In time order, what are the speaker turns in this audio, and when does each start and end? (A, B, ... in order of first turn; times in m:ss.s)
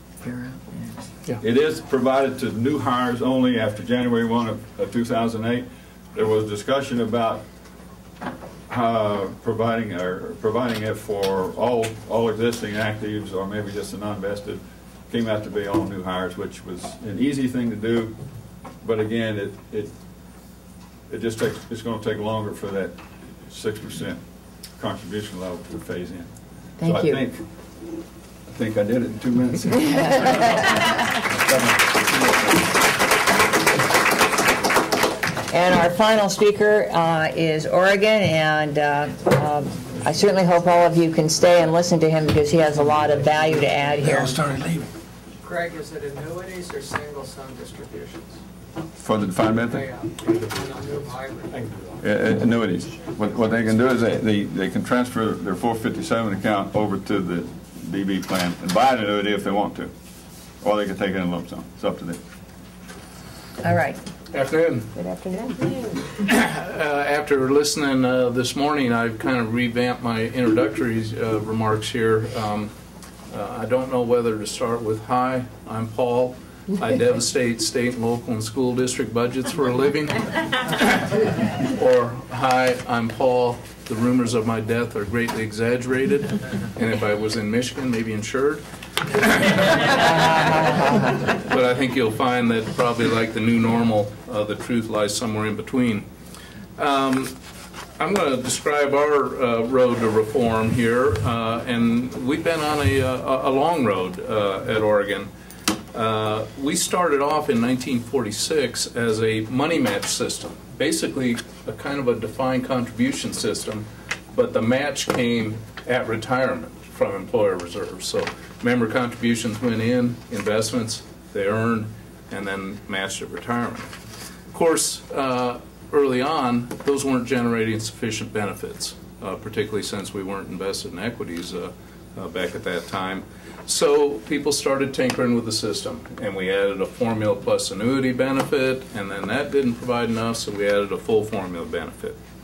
0:00.3-0:00.9 A
0:01.4-0:07.4 B
0:08.7-0:18.2 B
0:18.8-0:19.9 B
0:21.1-0:24.2 B
0:24.8-0:26.3 B
0:26.8-0:27.2 A
0:26.8-0:27.4 B
0:28.5-0:31.5 B
0:35.5-0:44.5 A
0:45.4-0:48.4 C
0:49.0-0:49.8 B
0:49.7-0:51.7 C
0:52.0-0:59.9 B
1:00.6-1:02.2 B
1:03.6-1:04.0 A
1:04.3-1:04.9 D
1:06.2-1:12.7 D
1:13.3-1:28.6 D
1:29.2-1:30.0 D
1:29.9-1:31.3 A
1:31.4-1:36.1 D
1:36.8-1:37.4 D
1:38.0-1:45.3 D
1:45.9-2:03.9 D
2:04.5-2:22.2 D